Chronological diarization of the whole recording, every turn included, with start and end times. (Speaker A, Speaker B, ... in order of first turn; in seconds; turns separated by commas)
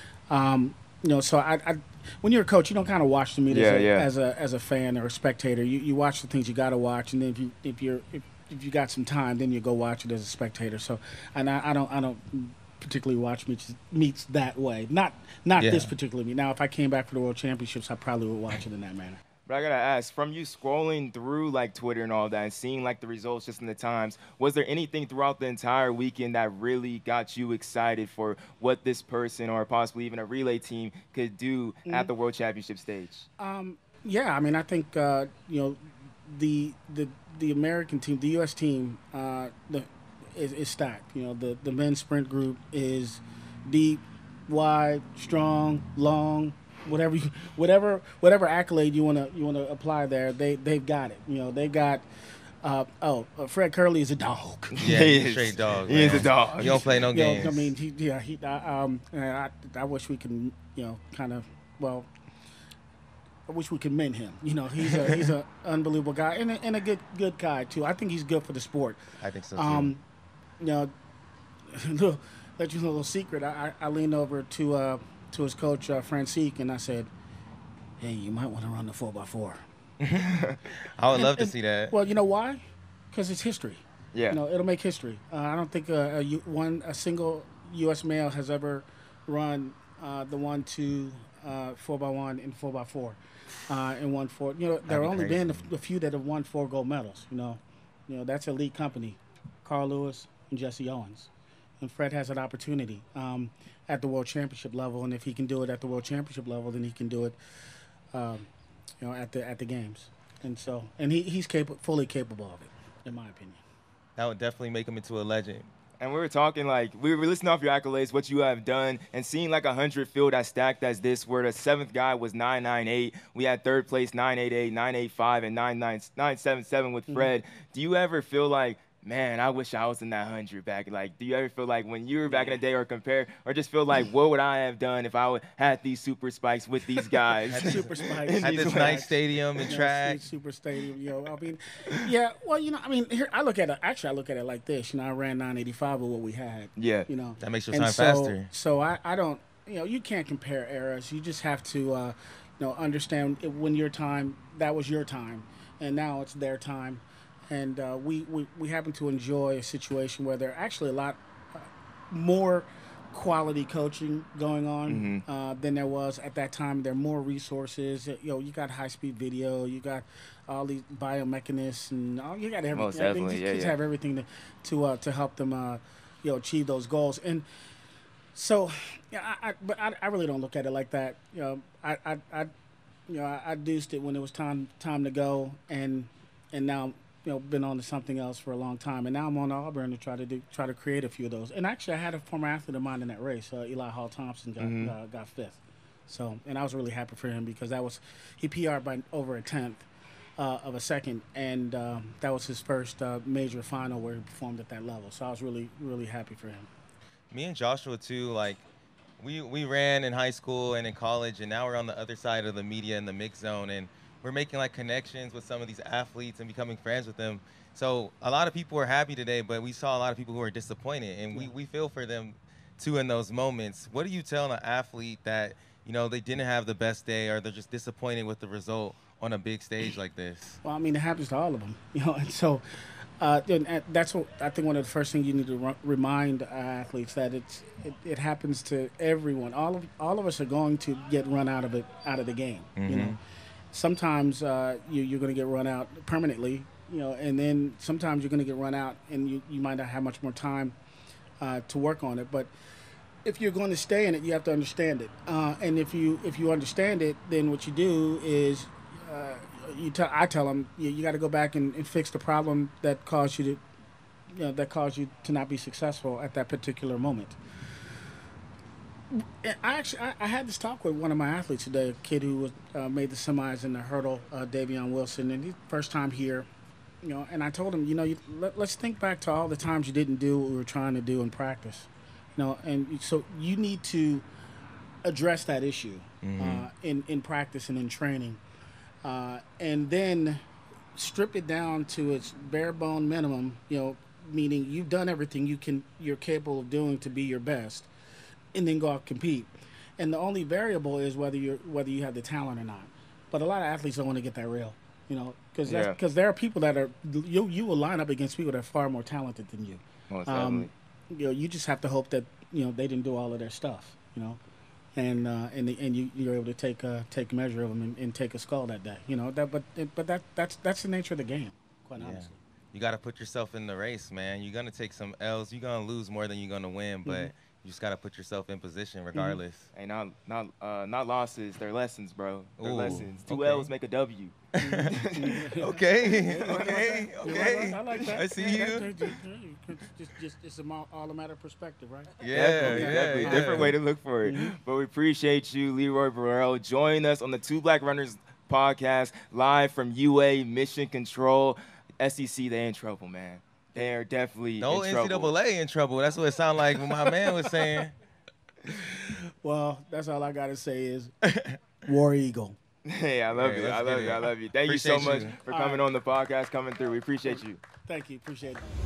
Speaker A: 0.3-19.2, Speaker B: 3.5-4.1, Speaker C: 15.6-15.9, Speaker B: 19.5-33.3, Speaker A: 33.4-52.1, Speaker A: 52.6-54.9, Speaker B: 54.8-56.9, Speaker C: 54.8-57.7, Speaker A: 57.1-62.1, Speaker A: 63.5-69.0, Speaker C: 69.2-69.9, Speaker A: 69.6-70.0, Speaker A: 70.6-70.9, Speaker A: 71.7-77.1, Speaker A: 78.0-79.6, Speaker C: 80.0-80.3, Speaker C: 81.0-82.0, Speaker A: 81.1-107.4, Speaker B: 84.1-84.4, Speaker C: 94.8-95.7, Speaker A: 108.1-108.5, Speaker A: 109.0-113.6, Speaker C: 114.2-115.7, Speaker B: 116.0-139.0, Speaker A: 132.3-132.6, Speaker C: 137.5-140.2, Speaker A: 137.5-177.4, Speaker B: 146.8-147.1, Speaker C: 147.4-148.5, Speaker B: 164.9-165.2, Speaker B: 172.7-173.8, Speaker A: 178.3-182.5, Speaker A: 183.1-199.9, Speaker B: 194.6-194.9, Speaker A: 200.4-206.7, Speaker C: 207.3-208.6, Speaker C: 209.2-230.6, Speaker A: 230.6-232.7, Speaker A: 233.2-243.2, Speaker C: 242.8-243.2, Speaker A: 243.7-250.8, Speaker A: 251.4-252.5, Speaker A: 253.2-263.6, Speaker A: 264.3-267.4, Speaker A: 269.1-276.5, Speaker A: 277.0-284.2, Speaker A: 285.0-288.4, Speaker C: 286.2-286.7, Speaker A: 289.0-290.4, Speaker A: 290.9-297.9, Speaker A: 298.5-314.4, Speaker B: 305.6-306.0, Speaker B: 310.1-310.7, Speaker A: 315.0-322.4, Speaker C: 322.0-329.7, Speaker A: 327.1-327.3, Speaker B: 329.7-335.3, Speaker C: 332.6-333.7, Speaker C: 334.6-334.9, Speaker A: 334.6-344.6, Speaker C: 335.6-339.1, Speaker B: 337.9-338.2, Speaker C: 342.2-343.8, Speaker B: 342.3-355.3, Speaker C: 354.6-357.9, Speaker A: 358.7-361.1, Speaker A: 361.8-362.6, Speaker B: 362.9-367.6, Speaker C: 363.3-365.4, Speaker A: 365.5-365.8, Speaker A: 367.9-368.7